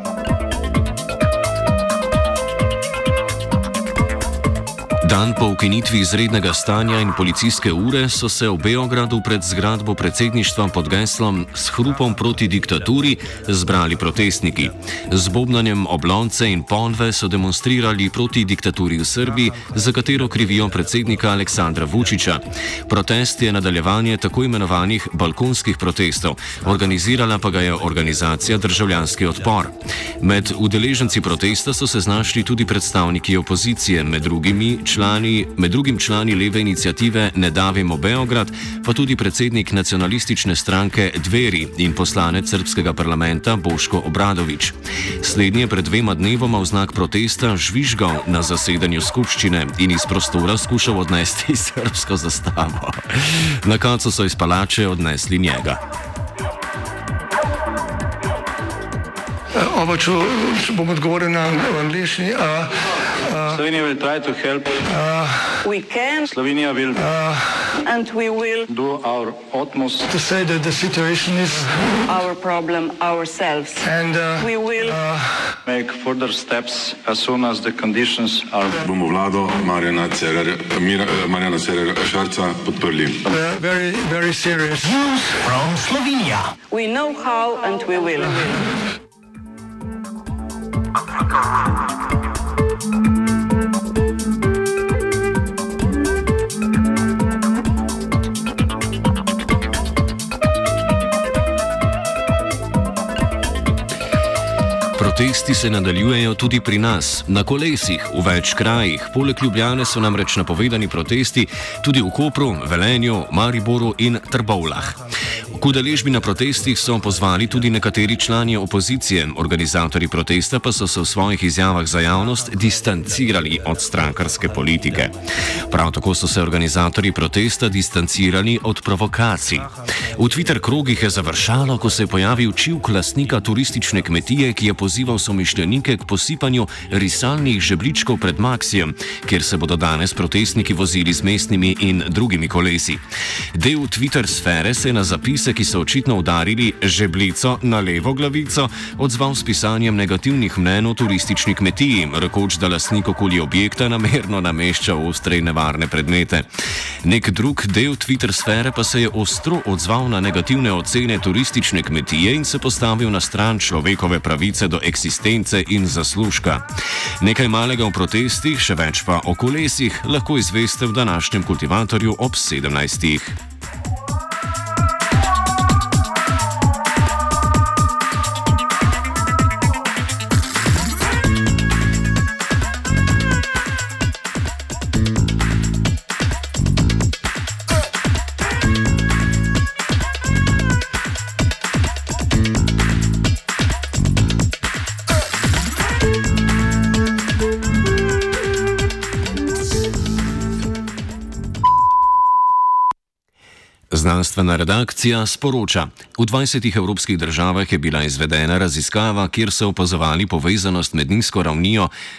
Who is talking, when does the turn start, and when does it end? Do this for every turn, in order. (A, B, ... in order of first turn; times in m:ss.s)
0:05.0-0:55.8 A
0:59.5-1:03.6 B
1:03.5-1:04.8 C
1:04.8-1:05.6 B
1:05.6-1:06.3 D
1:06.3-1:07.1 C
1:07.0-1:07.8 B
1:07.7-1:08.7 D
1:08.7-1:10.1 C
1:10.1-1:12.0 B
1:12.0-1:13.9 D
1:13.8-1:15.5 B
1:14.4-1:15.0 D
1:15.6-1:18.8 C
1:18.8-1:23.2 E
1:23.3-1:26.4 B
1:26.7-1:28.7 D
1:44.9-2:36.5 A
2:37.0-2:46.6 A
2:47.2-2:53.4 A
3:23.9-3:31.9 A